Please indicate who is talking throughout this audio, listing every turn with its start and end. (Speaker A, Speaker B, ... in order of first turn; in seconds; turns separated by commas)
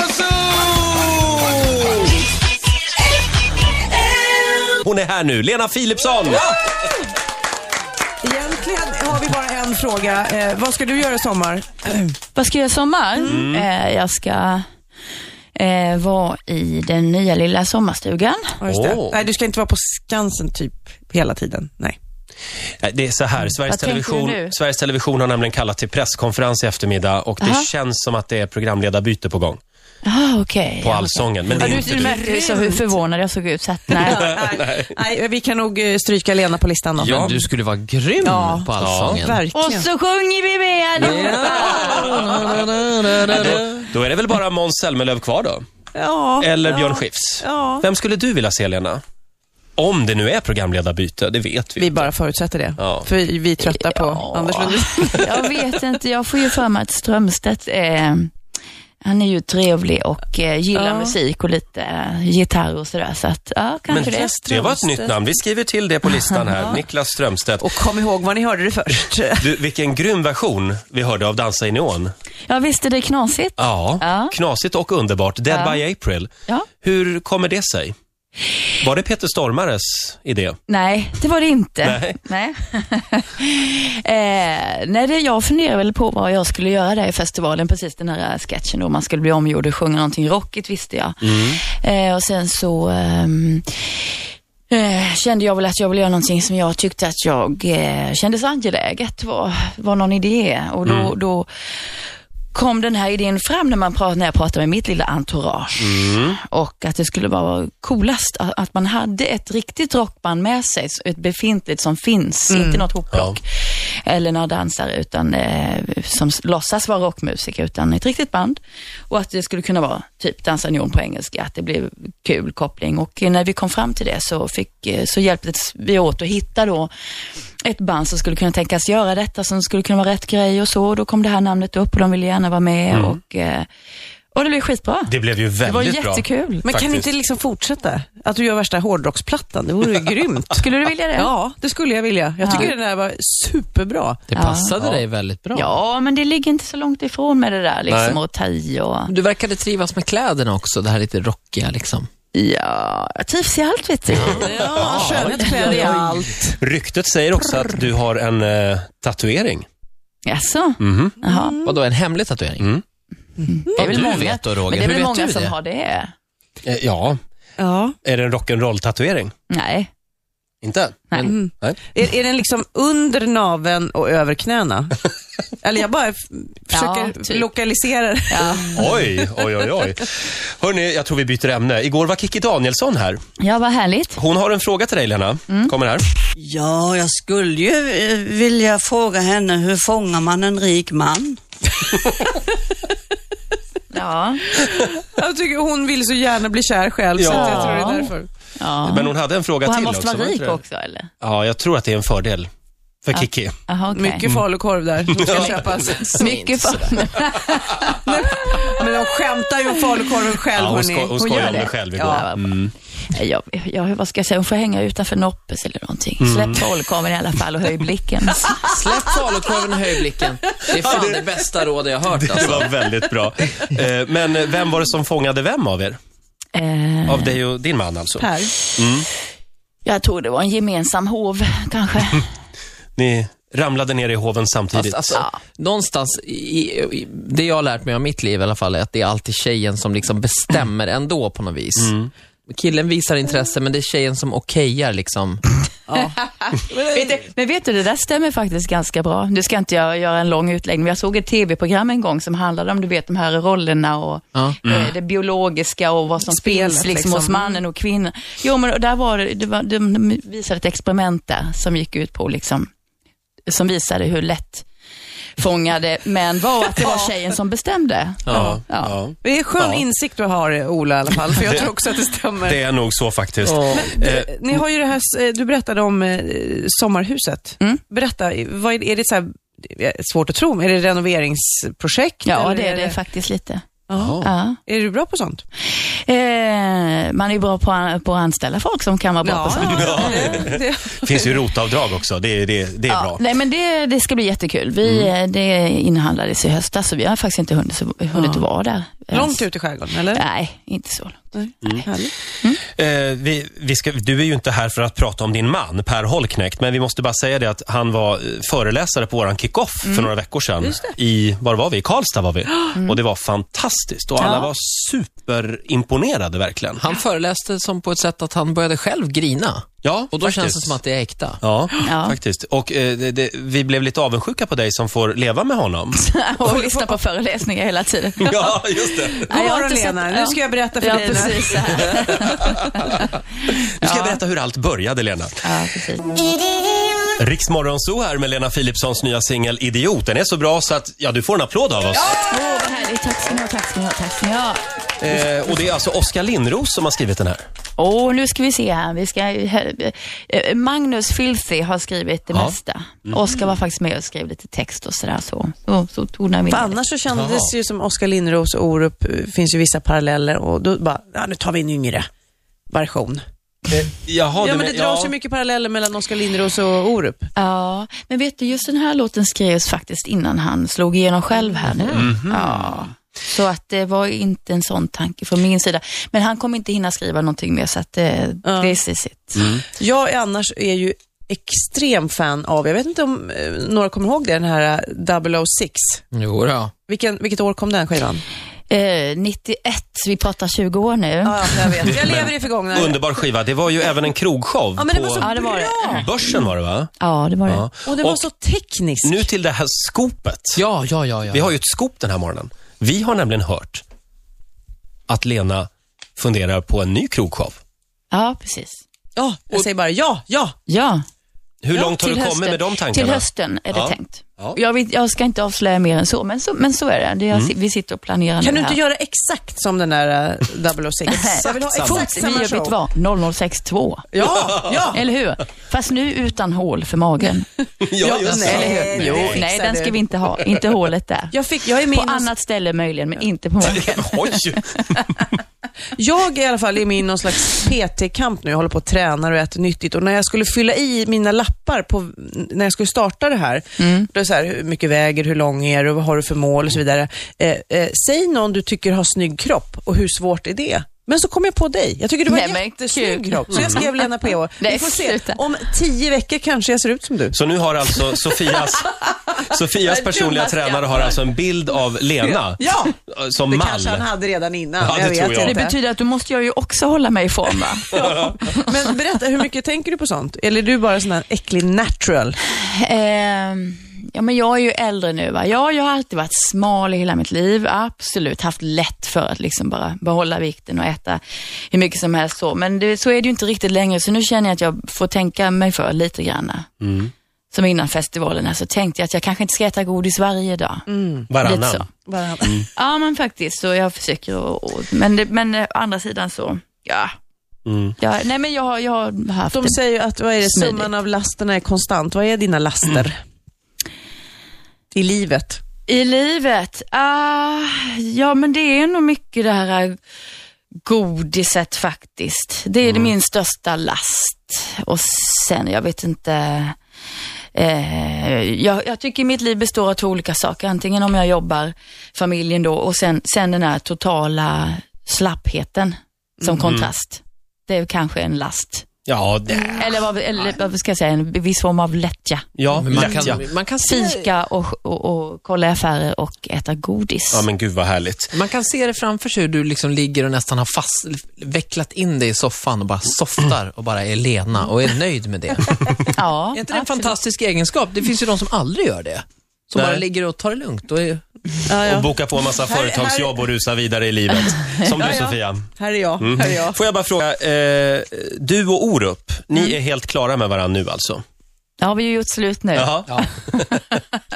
Speaker A: 0.3-1.6, Speaker A: 4.8-6.5, Speaker B: 8.2-12.1, Speaker C: 12.3-14.6, Speaker A: 13.2-13.7, Speaker C: 15.5-18.6, Speaker B: 18.6-22.0, Speaker A: 18.6-19.2, Speaker A: 22.8-29.6, Speaker C: 23.6-24.5, Speaker C: 27.4-27.7, Speaker C: 30.0-34.2, Speaker A: 30.8-32.2, Speaker B: 31.6-32.9, Speaker B: 34.0-37.3, Speaker A: 34.0-34.9, Speaker A: 37.0-37.5, Speaker D: 37.0-39.4, Speaker B: 38.2-39.9, Speaker A: 38.8-39.2, Speaker C: 39.5-42.2, Speaker D: 41.0-43.9, Speaker A: 41.5-42.5, Speaker A: 43.2-45.6, Speaker B: 45.9-47.8, Speaker A: 46.4-49.0, Speaker A: 49.8-52.1, Speaker B: 51.8-55.4, Speaker A: 52.8-53.1, Speaker C: 53.6-58.3, Speaker C: 59.0-64.3, Speaker B: 60.7-61.1, Speaker A: 63.9-67.7, Speaker B: 63.9-65.2, Speaker C: 66.3-66.8, Speaker B: 67.6-69.5, Speaker A: 69.4-72.1, Speaker C: 72.5-74.3, Speaker A: 73.6-77.9, Speaker C: 75.5-75.8, Speaker A: 78.8-80.6, Speaker C: 80.7-94.1, Speaker A: 81.8-82.2, Speaker A: 91.2-91.6, Speaker C: 94.7-102.0, Speaker A: 100.8-101.1, Speaker C: 102.5-126.9, Speaker A: 105.8-106.4, Speaker B: 112.5-112.8, Speaker C: 127.6-133.7, Speaker A: 132.9-133.2, Speaker C: 134.3-136.7, Speaker A: 135.1-137.1, Speaker B: 136.6-140.6, Speaker C: 140.6-141.3, Speaker B: 141.1-144.2, Speaker C: 142.4-142.7, Speaker D: 144.3-145.7, Speaker C: 144.3-144.8, Speaker C: 145.5-149.1, Speaker A: 147.9-148.2, Speaker D: 149.1-152.1, Speaker C: 152.3-156.0, Speaker D: 154.3-156.1, Speaker B: 154.3-156.6, Speaker A: 154.9-155.3, Speaker A: 156.6-159.7, Speaker C: 160.2-161.6, Speaker A: 160.8-161.2, Speaker B: 161.2-161.7, Speaker D: 161.6-162.7, Speaker A: 162.6-162.8, Speaker C: 163.4-166.1, Speaker B: 163.7-164.0, Speaker D: 163.8-165.5, Speaker A: 166.6-167.2, Speaker B: 167.6-167.9, Speaker A: 168.0-169.3, Speaker C: 169.5-169.9, Speaker A: 170.6-171.8, Speaker C: 171.1-171.3, Speaker B: 171.3-175.1, Speaker B: 175.6-179.6, Speaker C: 176.7-177.5, Speaker C: 178.3-178.8, Speaker A: 178.7-183.2, Speaker C: 183.4-184.2, Speaker A: 184.2-186.0, Speaker C: 185.5-185.7, Speaker E: 186.4-191.4, Speaker C: 193.9-194.5, Speaker B: 194.5-198.3, Speaker A: 197.2-197.9, Speaker C: 197.3-201.1, Speaker A: 198.8-200.6, Speaker A: 201.2-202.5, Speaker A: 203.0-203.5, Speaker C: 203.1-204.3, Speaker B: 203.9-206.3, Speaker A: 205.1-205.6, Speaker D: 205.3-207.1, Speaker C: 206.2-208.0, Speaker B: 207.9-212.3, Speaker A: 210.5-212.7, Speaker C: 211.2-218.6, Speaker A: 216.2-216.7, Speaker D: 218.6-222.8, Speaker A: 220.7-221.2, Speaker A: 222.1-226.0, Speaker C: 226.5-227.4, Speaker A: 227.1-229.1, Speaker B: 228.2-228.5, Speaker C: 229.8-232.3, Speaker A: 232.9-235.2, Speaker D: 234.7-241.9, Speaker A: 241.8-242.1, Speaker D: 242.5-245.4, Speaker B: 245.9-246.2, Speaker C: 246.2-262.7, Speaker B: 246.7-247.2, Speaker A: 254.6-254.9, Speaker B: 256.2-257.6, Speaker C: 263.5-264.6, Speaker C: 265.4-269.0, Speaker B: 266.8-267.1, Speaker D: 268.2-268.6, Speaker A: 268.3-269.8, Speaker B: 269.2-272.6, Speaker A: 272.4-274.6, Speaker D: 273.4-273.9, Speaker B: 273.7-283.0, Speaker C: 282.2-283.6, Speaker B: 283.9-285.4, Speaker A: 283.9-284.3, Speaker C: 284.2-284.6, Speaker C: 285.7-290.4, Speaker B: 289.2-291.4, Speaker A: 289.7-293.2, Speaker C: 292.9-299.5, Speaker A: 294.8-295.1, Speaker B: 298.1-298.4, Speaker B: 299.1-300.2, Speaker C: 300.1-301.9, Speaker B: 301.4-302.1, Speaker A: 302.6-316.9, Speaker C: 309.8-310.1, Speaker B: 310.6-310.9, Speaker C: 312.7-313.0, Speaker D: 316.8-321.4, Speaker A: 319.8-320.8, Speaker A: 321.4-325.9, Speaker C: 321.8-322.2, Speaker C: 325.9-333.1, Speaker B: 326.4-327.0, Speaker A: 328.2-329.3, Speaker B: 329.3-331.7, Speaker A: 333.8-335.4, Speaker C: 333.8-334.2, Speaker C: 335.4-336.1, Speaker A: 337.2-342.2, Speaker C: 342.0-344.6, Speaker A: 345.0-347.4, Speaker C: 347.8-356.8, Speaker A: 352.3-353.2, Speaker B: 356.5-362.1, Speaker A: 357.1-357.5, Speaker B: 362.7-363.2, Speaker A: 363.7-365.1, Speaker B: 364.4-367.3, Speaker C: 367.4-379.5, Speaker A: 371.9-372.7, Speaker B: 378.4-378.8, Speaker A: 379.4-379.6, Speaker B: 379.7-386.0, Speaker D: 386.1-386.7, Speaker B: 386.9-388.2, Speaker C: 388.7-391.9, Speaker B: 391.2-393.0, Speaker A: 392.0-395.3, Speaker B: 394.8-396.1, Speaker C: 395.2-396.1, Speaker A: 395.9-396.9, Speaker C: 397.0-397.6, Speaker A: 397.4-398.3, Speaker B: 397.9-399.2, Speaker A: 399.0-400.6, Speaker D: 400.6-401.5, Speaker A: 401.3-403.8, Speaker A: 405.1-407.6, Speaker C: 408.1-408.8, Speaker B: 409.1-410.6, Speaker C: 410.7-411.0, Speaker A: 411.6-414.6, Speaker C: 411.8-418.8, Speaker B: 418.4-422.7, Speaker C: 421.1-424.0, Speaker A: 421.4-422.1, Speaker B: 424.1-425.0, Speaker C: 424.9-427.5, Speaker A: 427.8-429.4, Speaker B: 428.0-430.0, Speaker C: 428.2-431.4, Speaker B: 431.3-432.3, Speaker C: 431.9-435.0, Speaker A: 433.6-434.6, Speaker B: 435.9-457.4, Speaker C: 443.8-444.1, Speaker C: 452.3-455.4, Speaker A: 453.5-453.8, Speaker A: 457.3-464.0, Speaker B: 460.0-461.0, Speaker B: 462.2-462.9, Speaker B: 463.5-465.7, Speaker A: 464.8-465.6, Speaker C: 465.4-468.6, Speaker B: 467.9-472.4, Speaker C: 472.5-486.7, Speaker A: 486.8-487.1, Speaker C: 487.5-490.9, Speaker B: 490.9-491.3, Speaker A: 491.3-491.9, Speaker C: 491.4-491.9, Speaker B: 492.1-492.6, Speaker C: 492.7-497.1, Speaker A: 497.6-497.9, Speaker C: 498.0-499.8, Speaker B: 499.5-503.2, Speaker C: 500.4-500.9, Speaker B: 504.9-505.6, Speaker C: 505.9-510.0, Speaker C: 510.8-516.8, Speaker A: 512.8-513.1, Speaker C: 517.5-528.9, Speaker A: 526.6-526.9, Speaker A: 529.1-529.8, Speaker C: 529.7-532.5, Speaker A: 532.5-533.5, Speaker D: 532.7-534.3, Speaker C: 533.8-537.5, Speaker A: 537.3-538.3, Speaker D: 538.3-545.8, Speaker C: 546.1-546.9, Speaker B: 546.6-547.1, Speaker D: 546.6-551.2, Speaker A: 549.7-550.0, Speaker B: 551.7-553.4, Speaker A: 551.8-561.2, Speaker B: 555.0-556.8, Speaker C: 561.8-563.1, Speaker A: 562.7-564.0